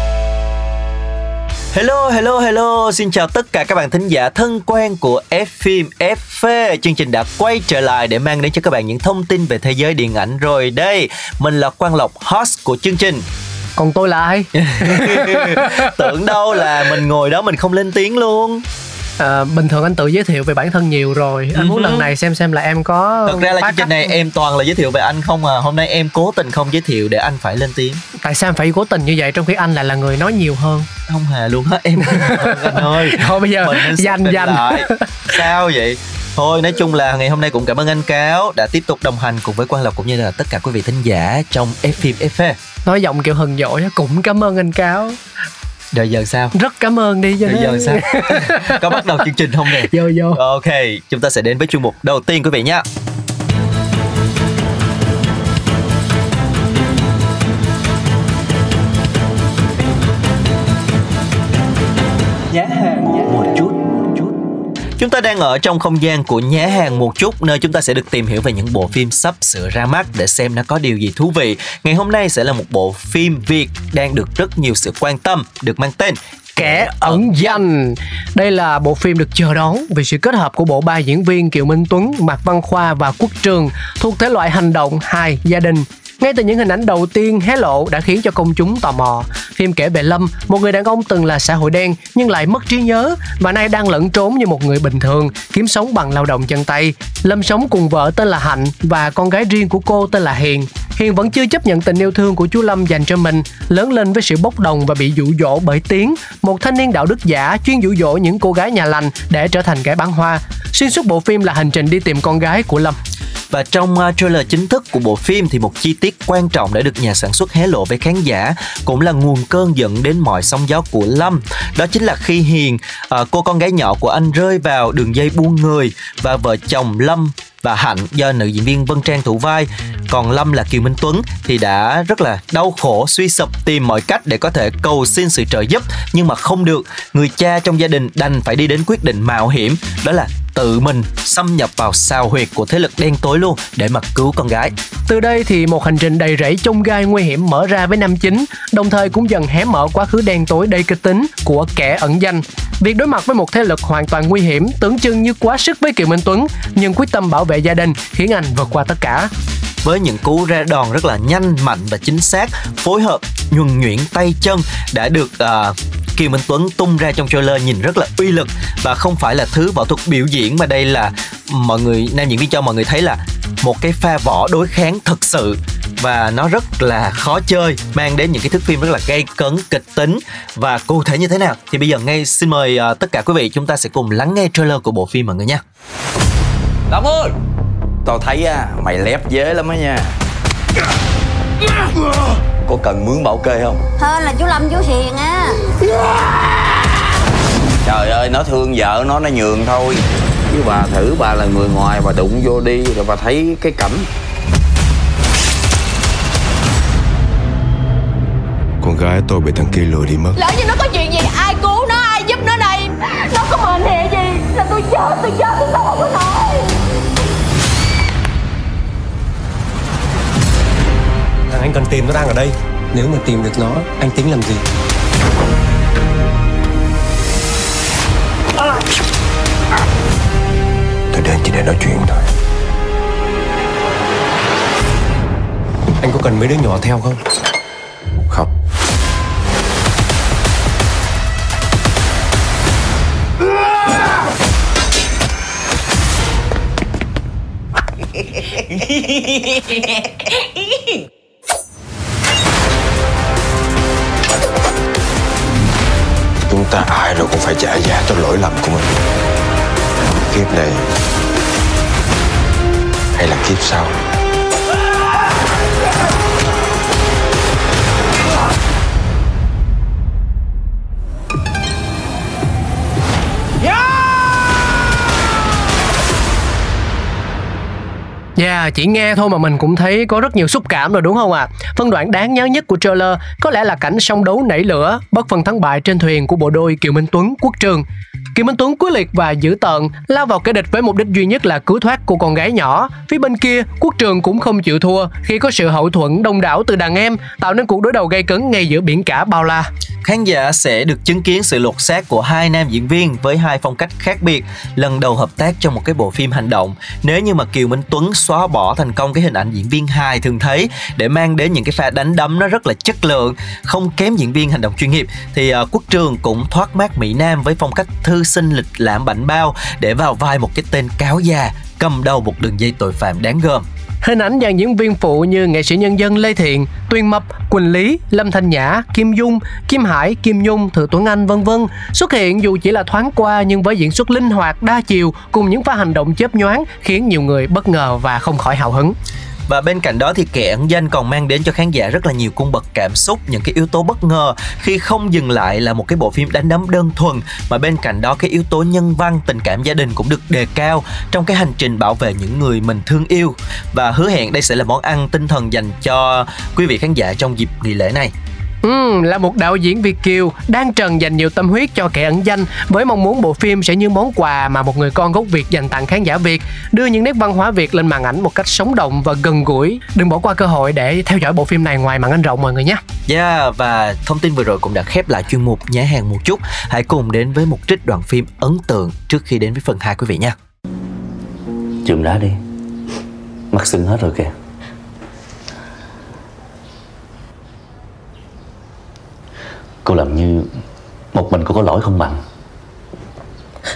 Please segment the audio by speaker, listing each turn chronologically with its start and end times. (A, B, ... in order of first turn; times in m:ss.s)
0:01.7-0:13.2 A
0:13.8-0:15.9 B
0:14.6-0:18.6 A
0:19.2-0:24.1 B
0:21.5-0:22.1 A
0:23.3-0:28.0 A
0:28.2-0:30.9 B
0:31.1-0:42.6 A
0:32.1-0:35.2 B
0:42.8-0:45.2 B
0:45.9-0:46.5 A
0:46.5-0:48.8 B
0:47.4-0:52.8 A
0:49.8-0:50.4 B
1:02.5-1:04.3 A
1:05.0-1:17.5 A
1:16.6-1:53.0 B
1:53.5-2:24.7 A
2:25.1-2:39.3 B
2:39.8-3:05.6 A
3:06.9-3:07.3 C
3:08.0-3:10.1 C
3:12.6-3:13.8 C
3:14.0-3:15.6 D
3:17.8-3:24.1 C
3:28.8-3:30.4 E
3:30.4-3:36.6 D
3:41.5-3:44.6 F
3:51.1-3:52.2 E
3:56.0-3:57.2 F
4:16.4-4:18.9 E
4:20.3-4:20.9 E
4:23.1-4:23.9 E
4:38.4-4:47.8 B
4:48.3-4:59.7 B
5:00.0-5:23.6 A
5:24.0-5:39.0 B
5:39.5-5:58.1 A
5:58.6-6:12.8 B
6:13.1-6:20.3 A
6:21.8-6:22.4 G
6:23.5-6:24.3 G
6:29.8-6:30.5 G
6:31.1-6:32.2 G